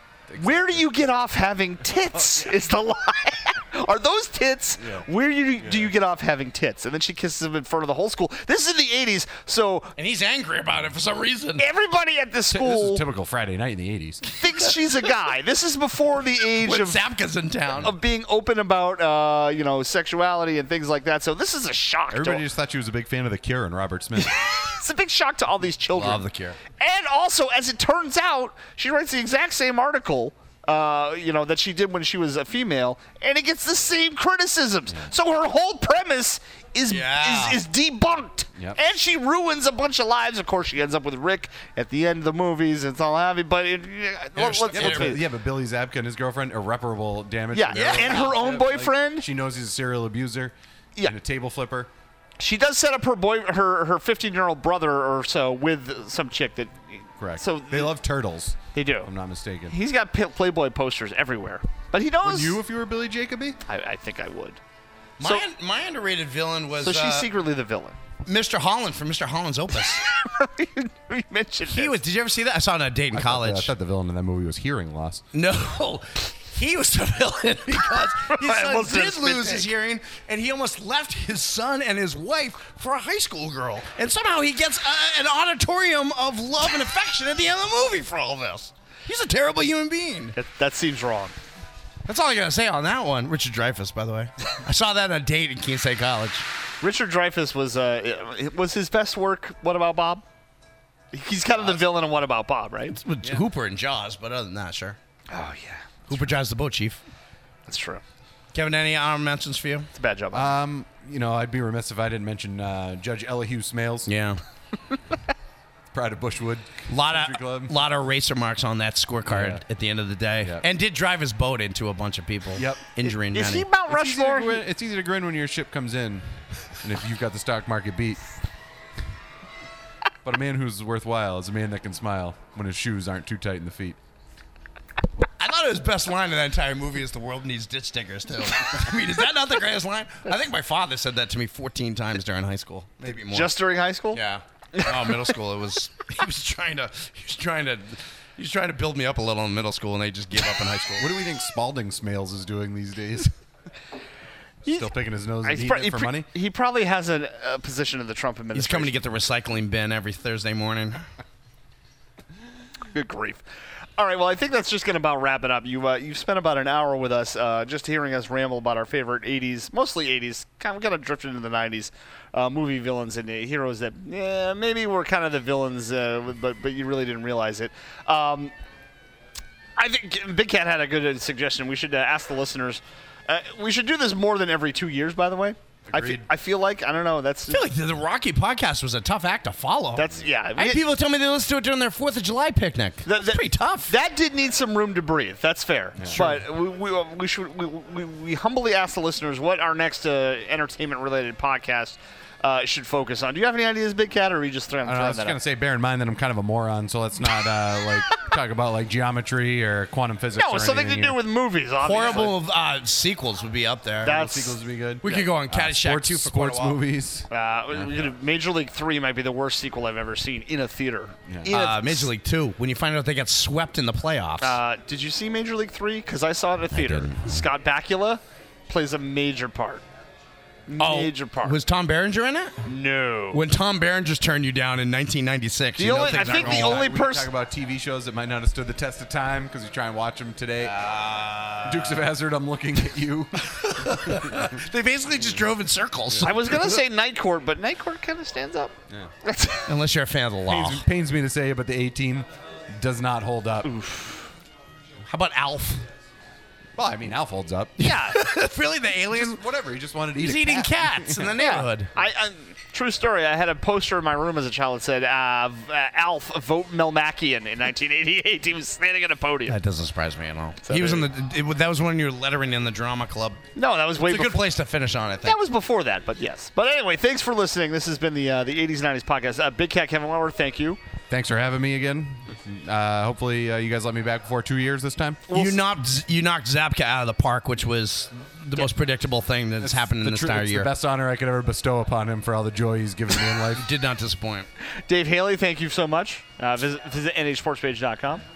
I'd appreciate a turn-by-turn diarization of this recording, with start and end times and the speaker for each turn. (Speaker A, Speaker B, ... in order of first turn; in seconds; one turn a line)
Speaker A: 0.3-0.9
Speaker B: 0.4-9.9
Speaker A: 5.6-5.9
Speaker C: 10.0-11.6
Speaker B: 11.6-13.0
Speaker A: 12.5-14.3
Speaker B: 14.3-17.1
Speaker C: 16.6-17.9
Speaker B: 17.8-22.4
Speaker A: 22.1-24.4
Speaker B: 24.2-45.2
Speaker C: 25.9-26.6
Speaker C: 36.9-37.6
Speaker C: 44.4-45.1
Speaker A: 44.7-51.9
Speaker B: 47.5-49.3
Speaker C: 47.7-48.4
Speaker B: 52.4-57.9
Speaker A: 57.2-59.8
Speaker B: 58.7-59.1
Speaker B: 59.7-62.6
Speaker A: 62.2-63.6
Speaker B: 63.7-64.6
Speaker C: 65.2-67.3
Speaker B: 66.8-67.9
Speaker C: 68.2-70.0
Speaker B: 70.0-72.0
Speaker C: 71.7-73.7
Speaker A: 73.1-75.2
Speaker C: 75.3-90.3
Speaker B: 78.1-79.7
Speaker B: 90.3-91.3
Speaker C: 92.0-96.4
Speaker B: 96.8-100.2
Speaker B: 101.1-103.0
Speaker C: 103.0-105.0
Speaker B: 105.3-106.0
Speaker C: 106.1-107.0
Speaker B: 107.7-108.0
Speaker C: 108.5-109.9
Speaker B: 109.9-110.5
Speaker A: 110.3-114.1
Speaker C: 114.0-114.4
Speaker A: 115.9-117.7
Speaker C: 116.9-123.7
Speaker A: 119.3-119.6
Speaker A: 122.5-122.8
Speaker B: 123.0-124.6
Speaker A: 123.9-126.2
Speaker A: 126.8-128.2
Speaker A: 130.2-134.0
Speaker C: 135.4-143.5
Speaker B: 143.3-144.2
Speaker C: 144.1-151.1
Speaker A: 151.0-153.3
Speaker A: 154.7-156.3
Speaker B: 155.4-158.9
Speaker C: 158.5-161.1
Speaker B: 162.9-163.4
Speaker B: 164.0-178.5
Speaker B: 179.8-187.6
Speaker A: 185.9-186.2
Speaker C: 187.5-193.9
Speaker B: 189.9-190.8
Speaker B: 193.0-205.4
Speaker A: 196.0-196.4
Speaker C: 196.1-196.4
Speaker A: 204.8-211.2
Speaker B: 210.3-212.3
Speaker C: 211.8-214.2
Speaker B: 214.0-215.2
Speaker A: 214.0-217.3
Speaker C: 215.0-216.8
Speaker B: 217.3-222.1
Speaker A: 221.3-221.6
Speaker C: 221.5-224.6
Speaker B: 224.4-229.8
Speaker B: 230.7-231.6
Speaker C: 230.8-232.6
Speaker B: 232.7-233.4
Speaker C: 233.3-236.8
Speaker B: 235.8-237.3
Speaker A: 235.9-240.8
Speaker C: 240.6-241.9
Speaker A: 241.6-244.4
Speaker C: 243.4-246.7
Speaker B: 246.2-249.7
Speaker C: 249.7-250.8
Speaker A: 250.5-253.7
Speaker B: 253.6-254.3
Speaker C: 255.1-255.8
Speaker A: 256.8-257.9
Speaker B: 257.8-258.2
Speaker C: 257.8-259.4
Speaker A: 259.1-261.4
Speaker C: 260.1-261.9
Speaker B: 261.4-269.6
Speaker C: 269.5-273.4
Speaker B: 270.6-271.1
Speaker B: 273.6-274.4
Speaker C: 274.0-275.4
Speaker B: 275.2-280.8
Speaker A: 281.1-285.2
Speaker B: 285.3-285.6
Speaker C: 285.3-290.7
Speaker A: 289.6-293.6
Speaker C: 293.5-294.5
Speaker B: 294.9-298.2